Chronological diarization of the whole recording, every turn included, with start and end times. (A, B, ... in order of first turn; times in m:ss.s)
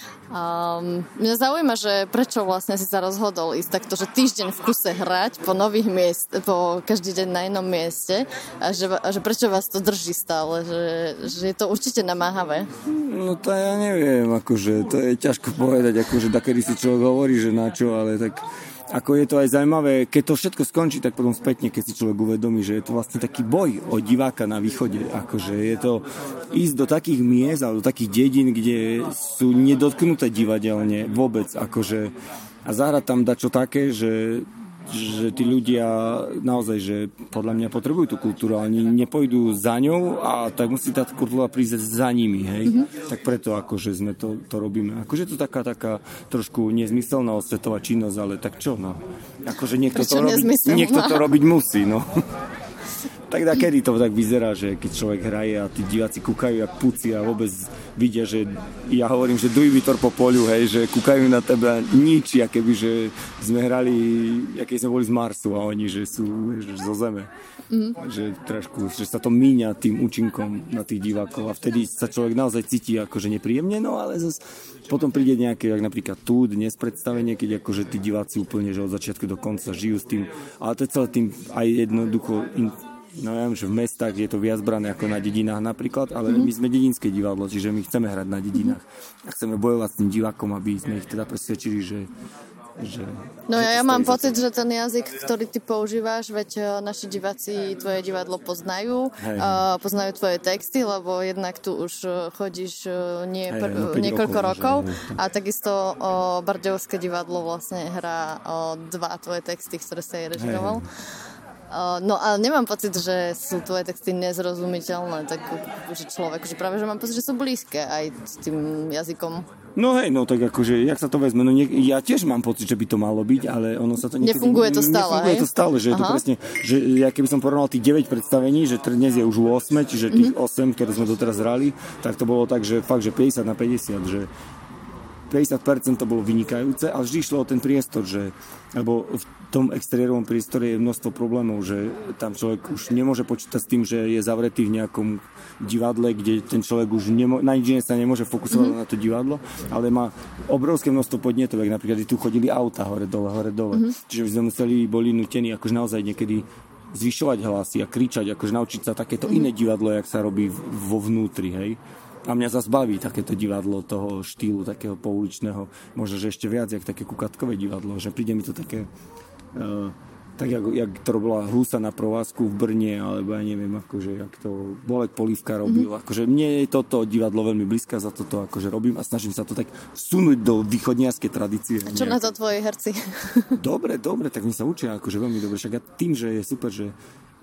0:00.3-0:12.7 A
0:12.9-0:32.1 B
0:32.6-0:52.2 B
0:49.9-0:51.3 A
0:53.3-1:07.3 B
1:08.0-1:32.1 B
1:32.8-1:34.4 B
1:33.5-1:50.9 A
1:39.2-1:39.6 B
1:43.5-1:45.2 B
1:50.4-1:50.9 B
1:51.7-1:59.5 A
1:59.8-2:14.3 B
2:04.2-2:06.2 A
2:10.1-2:10.4 A
2:15.3-2:48.9 B
2:28.5-2:28.8 A
2:49.5-3:02.4 B
2:55.6-2:55.9 A
3:01.8-3:03.6 A
3:03.6-3:07.0 B